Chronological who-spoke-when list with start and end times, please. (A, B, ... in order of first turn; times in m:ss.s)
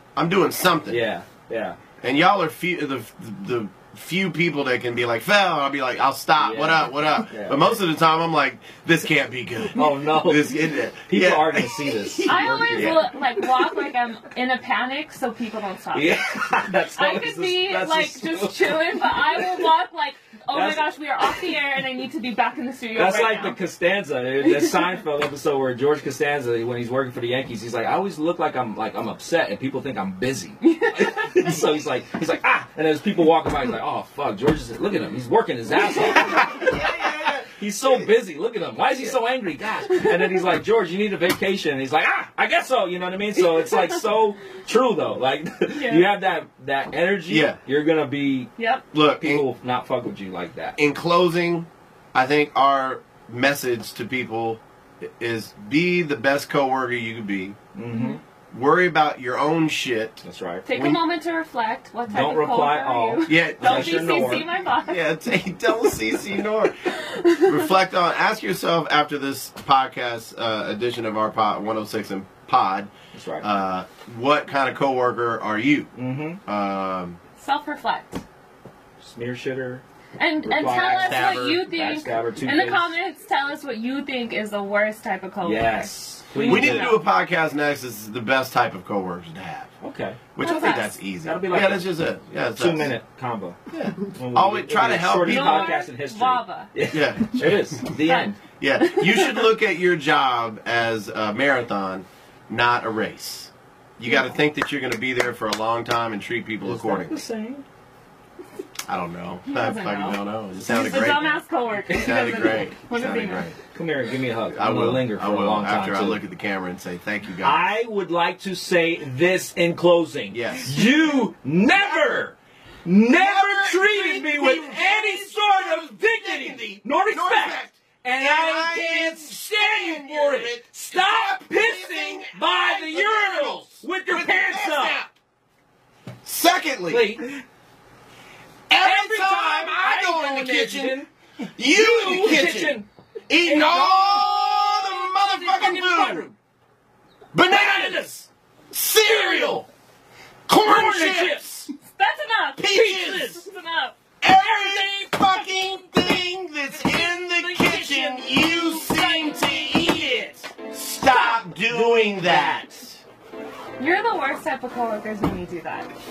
0:00.2-0:01.0 A
0:00.9-0:01.8 B
0:02.0-0:13.1 A
0:06.4-0:07.7 B
0:09.7-0:13.1 B
0:12.2-0:23.6 C
0:15.9-0:19.7 B
0:20.5-0:21.4 B
0:23.0-0:36.8 B
0:24.4-0:25.0 C
0:30.6-0:31.6 C
0:36.1-0:37.9 A
0:37.5-0:48.5 B
0:39.9-0:40.4 C
0:43.5-0:44.0 C
0:45.7-0:46.1 C
0:47.3-0:47.6 A
0:48.6-0:48.8 C
0:48.9-0:49.4 A
0:49.2-0:50.8 B
0:50.8-0:57.6 A
0:57.7-0:58.2 B
0:57.9-0:58.2 C
0:58.5-1:00.2 A
1:00.2-1:00.7 B
1:00.6-1:05.0 C
1:00.7-1:01.0 A
1:02.1-1:04.5 B
1:03.2-1:15.9 A
1:07.0-1:07.7 C
1:13.1-1:13.5 B
1:15.9-1:16.4 B
1:16.4-1:17.2 A
1:17.4-1:18.2 C
1:19.0-1:19.8 B
1:20.2-1:27.0 C
1:20.4-1:22.9 B
1:20.9-1:21.6 A
1:25.4-1:27.0 B
1:26.4-1:29.7 A
1:29.8-1:30.2 B
1:30.3-1:33.0 A
1:30.4-1:31.0 C
1:31.2-1:31.9 B
1:32.6-1:38.4 B
1:33.7-1:35.7 A
1:35.2-1:36.7 C
1:36.9-1:38.0 A
1:38.0-1:39.5 C
1:38.6-1:47.2 A
1:46.6-1:47.6 B
1:48.9-1:51.3 A
1:49.5-1:53.5 C
1:51.9-1:53.5 A
1:53.7-1:56.2 B
1:54.5-1:57.6 A
1:57.4-2:15.0 B
2:00.3-2:00.7 A
2:03.1-2:15.1 A
2:16.2-2:17.1 A
2:16.9-2:17.4 B
2:18.7-2:21.0 A
2:18.8-2:22.9 B
2:21.6-2:22.8 A
2:23.3-2:26.3 A
2:23.4-2:26.3 B
2:27.3-2:29.7 A
2:27.4-2:28.2 B
2:29.1-2:29.6 B
2:30.5-2:31.7 A
2:30.6-2:31.6 B
2:32.0-2:34.0 C
2:32.6-2:33.3 A
2:32.7-2:33.4 B
2:34.2-2:43.0 A
2:34.3-2:35.4 B
2:36.7-2:40.4 B
2:39.2-2:39.5 C
2:41.9-2:42.7 B
2:43.8-2:45.9 C